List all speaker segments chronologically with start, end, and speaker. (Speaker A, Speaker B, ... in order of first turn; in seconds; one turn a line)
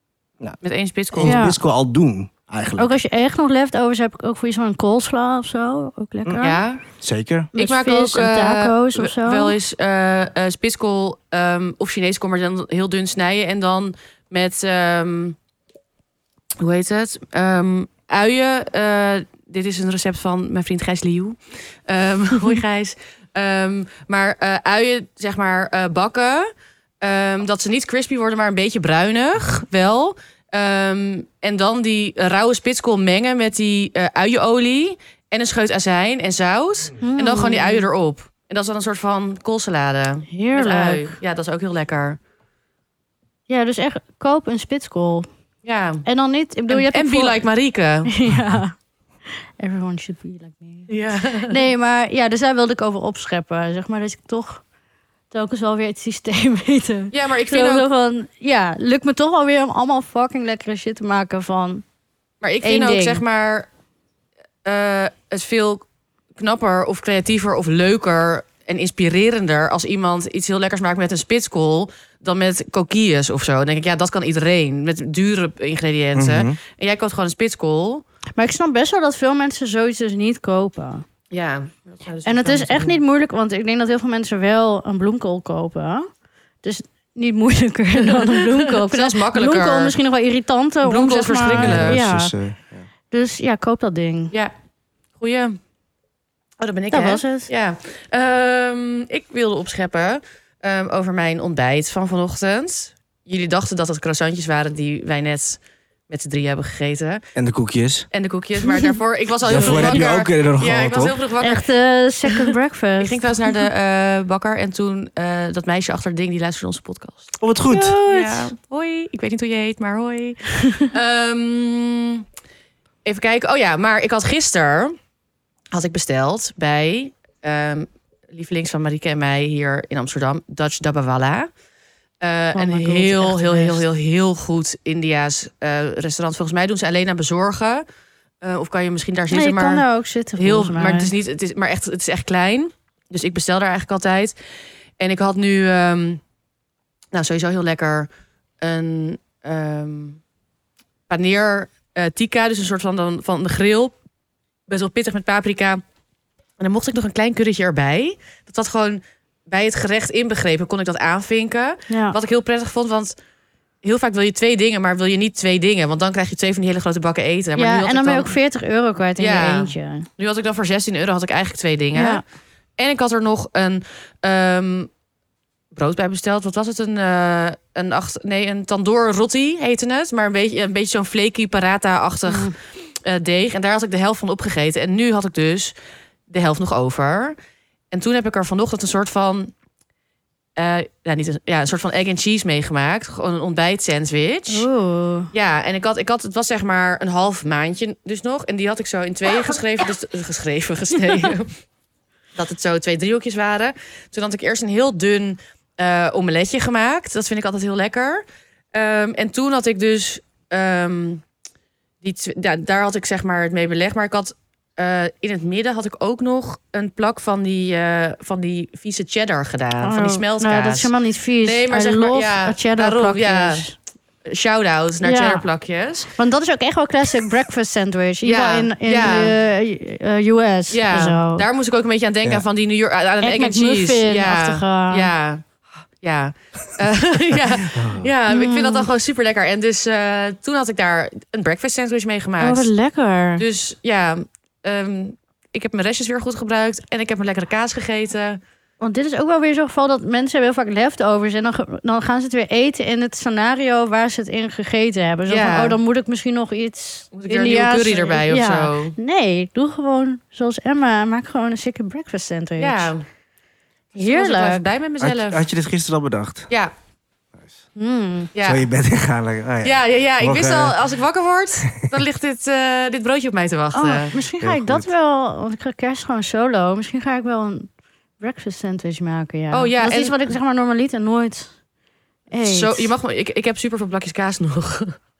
Speaker A: 0.6-1.4
Speaker B: 1.1-3.0
Speaker C: 1.2-1.6
Speaker C: 2.8-6.6
Speaker A: 6.4-6.8
Speaker B: 7.0-7.5
Speaker C: 7.5-9.6
Speaker A: 7.5-15.3
Speaker A: 16.6-26.5
Speaker A: 27.0-42.2
Speaker C: 37.0-37.9
Speaker C: 40.3-41.1
Speaker C: 43.5-45.3
Speaker A: 45.6-46.0
Speaker C: 46.0-47.4
Speaker A: 46.7-48.1
Speaker C: 48.1-48.7
Speaker C: 49.6-54.6
Speaker A: 50.9-51.6
Speaker C: 55.3-61.8
Speaker A: 57.1-57.9
Speaker A: 62.4-63.7
Speaker C: 62.6-63.2
Speaker A: 64.6-65.8
Speaker A: 66.3-78.0
Speaker B: 76.1-76.6
Speaker C: 78.3-81.0
Speaker A: 81.3-83.0
Speaker C: 82.2-86.1
Speaker C: 86.6-92.3
Speaker A: 88.1-89.9
Speaker A: 90.8-92.0
Speaker B: 91.5-92.8
Speaker C: 93.1-94.3
Speaker A: 95.2-95.6
Speaker A: 96.6-107.2
Speaker C: 96.9-97.5
Speaker B: 107.3-108.1
Speaker A: 108.1-111.7
Speaker C: 108.7-108.9
Speaker B: 109.4-111.2
Speaker C: 109.5-110.0
Speaker C: 111.4-113.6
Speaker A: 112.2-117.3
Speaker B: 117.4-118.0
Speaker C: 117.7-118.5
Speaker A: 118.0-122.2
Speaker A: 123.0-124.9
Speaker A: 125.7-131.5
Speaker A: 132.2-137.8
Speaker C: 132.5-133.8
Speaker A: 138.4-139.8
Speaker C: 139.3-141.1
Speaker A: 140.3-144.3
Speaker A: 145.0-146.2
Speaker A: 147.1-148.1
Speaker A: 148.6-150.2
Speaker A: 151.1-153.9
Speaker A: 154.7-155.8
Speaker A: 156.6-163.1
Speaker C: 161.9-162.2
Speaker A: 163.8-168.3
Speaker C: 167.6-170.1
Speaker A: 169.2-172.2
Speaker C: 171.9-172.2
Speaker A: 172.8-174.9
Speaker A: 175.7-185.7
Speaker C: 182.3-182.5
Speaker A: 186.3-187.4
Speaker A: 187.9-189.5
Speaker A: 190.6-194.7
Speaker C: 194.5-195.3
Speaker A: 195.3-201.5
Speaker A: 202.4-211.2
Speaker A: 212.0-220.9
Speaker C: 219.8-223.7
Speaker A: 221.4-223.7
Speaker A: 224.3-226.1
Speaker C: 225.0-225.4
Speaker C: 226.2-231.4
Speaker A: 228.2-229.3
Speaker A: 230.7-235.4
Speaker C: 233.2-235.1
Speaker A: 236.0-242.7
Speaker B: 237.7-238.1
Speaker C: 238.3-238.9
Speaker C: 242.4-243.4
Speaker A: 243.4-248.4
Speaker C: 248.8-262.9
Speaker A: 255.3-255.8
Speaker A: 257.1-258.9
Speaker A: 262.6-263.1
Speaker C: 263.9-264.6
Speaker A: 263.9-265.4
Speaker B: 265.0-266.5
Speaker C: 267.8-268.3
Speaker A: 268.3-268.6
Speaker B: 268.4-270.8
Speaker A: 269.6-274.2
Speaker C: 273.7-277.7
Speaker B: 274.4-274.9
Speaker C: 278.2-281.5
Speaker A: 279.5-280.1
Speaker C: 282.3-282.9
Speaker A: 282.4-285.0